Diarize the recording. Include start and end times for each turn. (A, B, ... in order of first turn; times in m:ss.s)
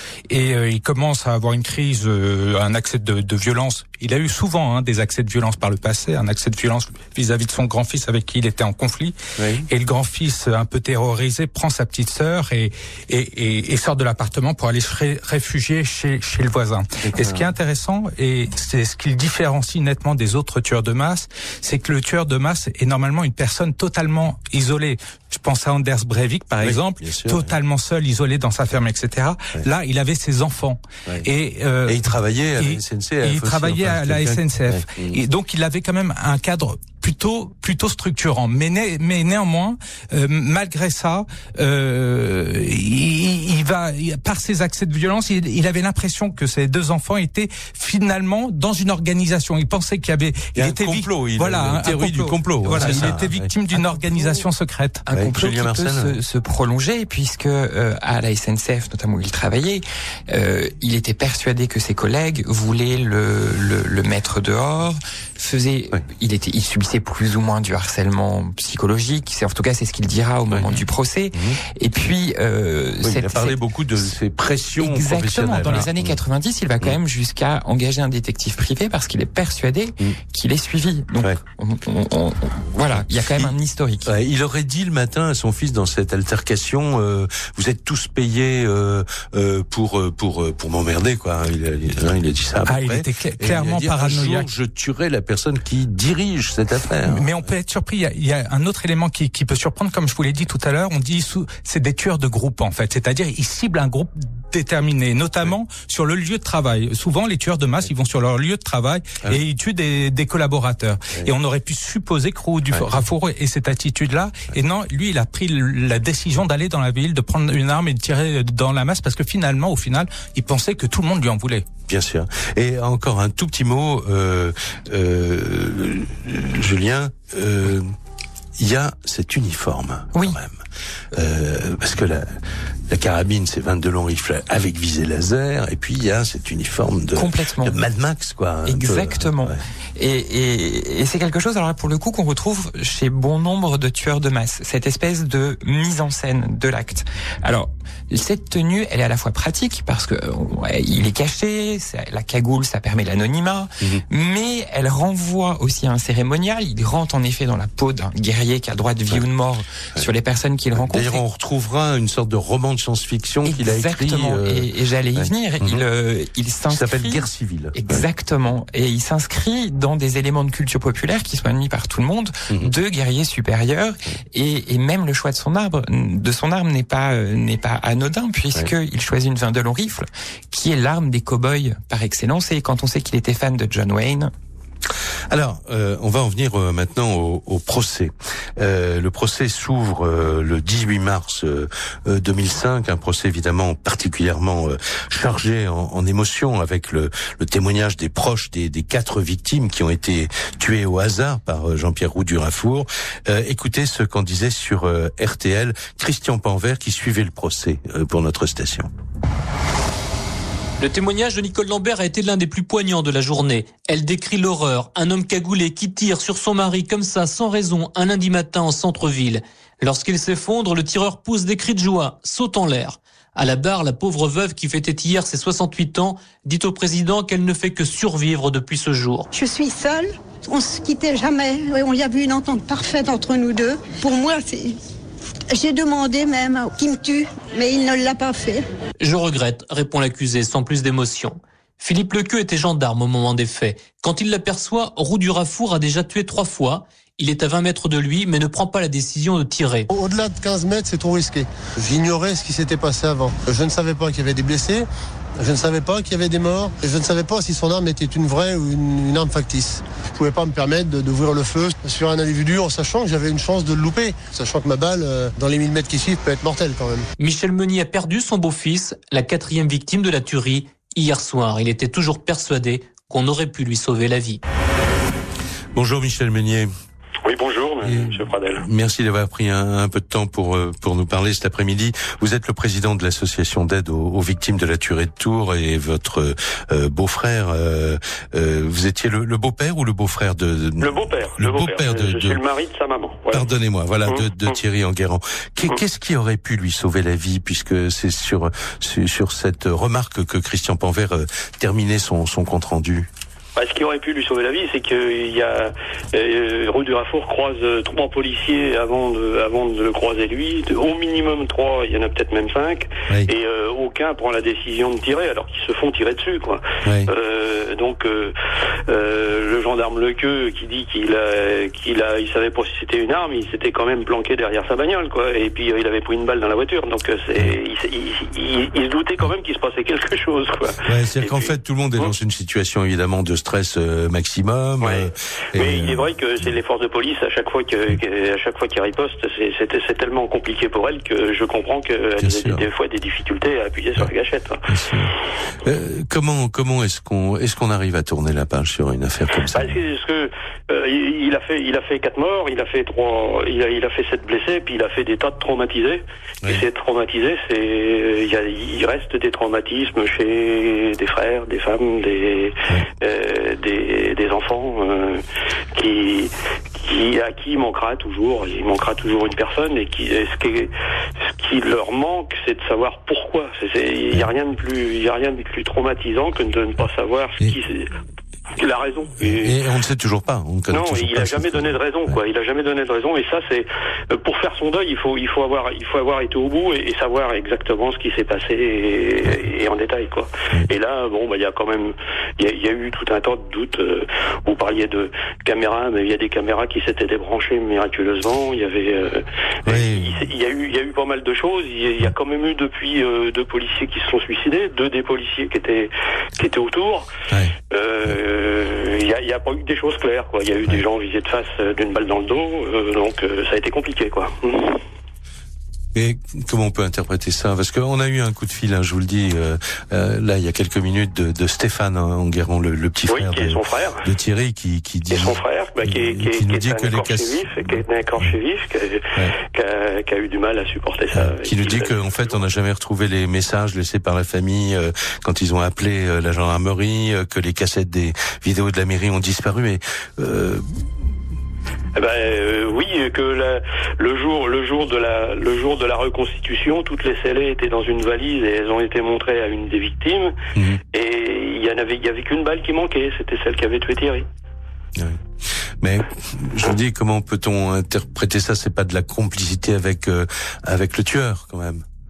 0:00.3-0:09.2 A
0:09.4-0:09.7 B
0:09.7-0:55.0 A
0:17.0-0:17.5 B
0:26.6-0:27.5 B
0:31.8-0:35.2 B
0:50.6-0:53.5 B
0:52.7-0:53.1 C
0:53.7-0:54.5 C
0:55.1-1:13.6 C
0:55.1-0:56.2 B
1:10.5-1:11.6 B
1:13.0-1:16.2 B
1:14.8-1:24.1 C
1:23.0-1:23.5 B
1:24.0-1:37.5 B
1:32.7-1:34.5 A
1:37.0-2:01.7 A
1:52.7-1:53.0 B
2:01.9-2:07.9 B
2:08.6-2:10.6 B
2:10.1-2:10.4 C
2:11.1-2:12.3 B
2:12.9-2:19.6 B
2:17.2-2:17.8 C
2:18.6-2:41.2 C
2:40.8-2:45.8 B
2:43.4-3:04.3 C
2:46.7-2:48.0 B
3:05.3-3:28.9 B
3:30.8-3:49.3 D
3:49.3-3:54.8 E
3:55.5-3:58.6 E
3:59.0-4:09.9 D
4:09.9-4:14.9 F
4:15.4-4:27.0 F
4:27.2-4:34.4 D
4:35.8-4:36.7 B
4:37.2-4:38.6 G
4:37.8-4:52.4 B
4:50.8-4:53.5 G
4:53.3-5:03.1 B
4:54.0-4:54.5 G
5:03.6-5:18.4 G
5:16.8-5:17.1 B
5:18.9-5:32.1 G
5:30.9-5:36.0 B
5:34.8-5:44.7 G
5:42.2-5:42.7 B
5:44.7-5:49.8 B
5:49.5-6:05.2 G
6:05.7-6:10.7 G
6:11.3-6:17.9 G
6:18.6-6:19.6 G
6:19.2-6:22.2 B
6:20.7-6:47.1 G
6:39.6-6:40.2 B
6:47.7-6:54.8 G
6:56.0-7:08.3 B
7:03.1-7:04.0 G
7:05.1-7:12.4 G
7:11.1-7:20.7 B
7:22.0-7:30.4 G
7:30.6-7:30.8 B
7:30.9-7:34.3 G
7:35.0-7:35.2 B
7:35.8-7:41.8 B